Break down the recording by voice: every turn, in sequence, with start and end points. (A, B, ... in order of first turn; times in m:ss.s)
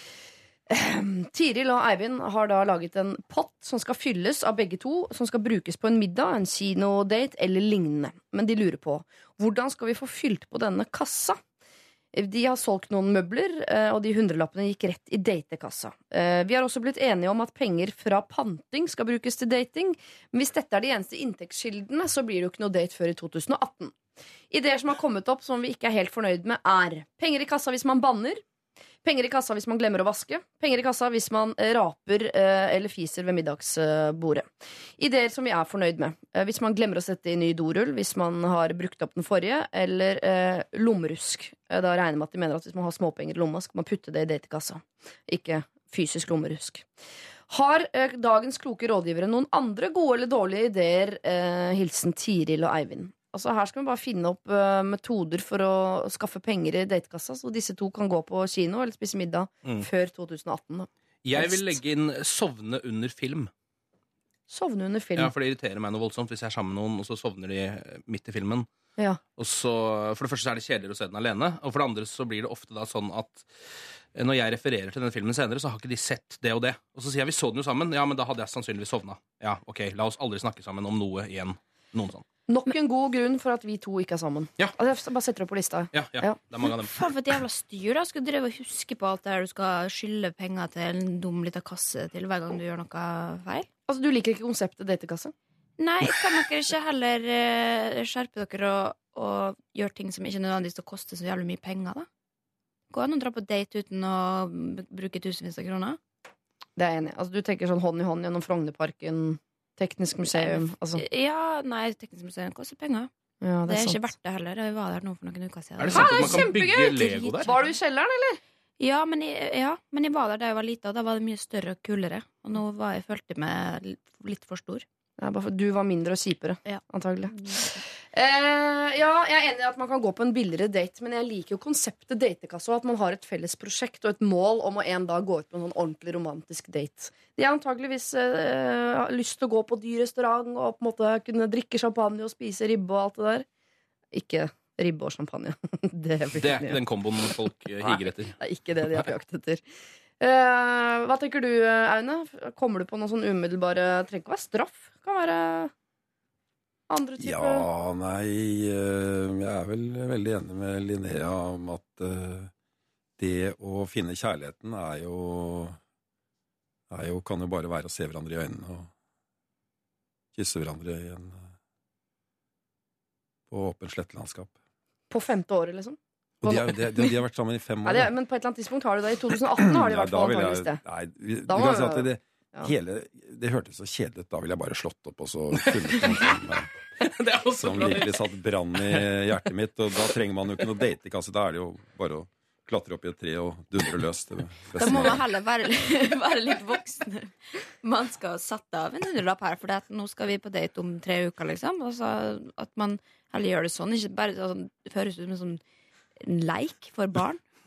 0:00.7-0:11.4 A
0:12.1-0:23.9 A
0:24.5-0:28.4 A
0:29.0-0:34.5 A
0:35.0-0:46.8 A
0:47.5-1:01.8 A
1:01.2-1:03.5 B
1:04.5-1:05.3 A
1:05.2-1:08.7 B
1:09.4-1:13.5 B
1:14.1-1:22.2 B
1:22.5-1:26.4 A
1:25.9-1:27.0 B
1:26.6-1:33.7 C
1:33.9-1:35.3 A
1:35.8-1:42.0 C
1:42.9-1:46.0 C
1:46.8-1:51.0 A
1:50.2-1:53.1 C
1:53.4-1:54.1 A
1:53.6-1:57.7 C
1:55.8-1:57.5 B
1:55.9-1:58.4 A
1:58.8-2:04.8 C
2:05.2-2:07.3 A
2:07.3-2:07.8 C
2:08.1-2:23.4 A
2:24.1-2:26.8 A
2:26.4-2:28.3 B
2:27.8-2:29.6 A
2:30.2-2:35.7 A
2:36.9-2:37.6 A
2:37.2-2:42.5 D
2:43.2-2:45.8 D
2:46.9-2:48.9 D
2:50.3-2:51.5 D
2:53.5-2:54.5 D
2:55.1-2:57.1 A
2:56.4-2:58.1 D
2:57.8-3:00.8 A
2:59.6-3:06.7 D
3:01.5-3:02.7 A
3:05.7-3:06.2 B
3:07.0-3:08.2 B
3:07.6-3:15.2 D
3:14.8-3:25.6 C
3:26.2-3:27.4 C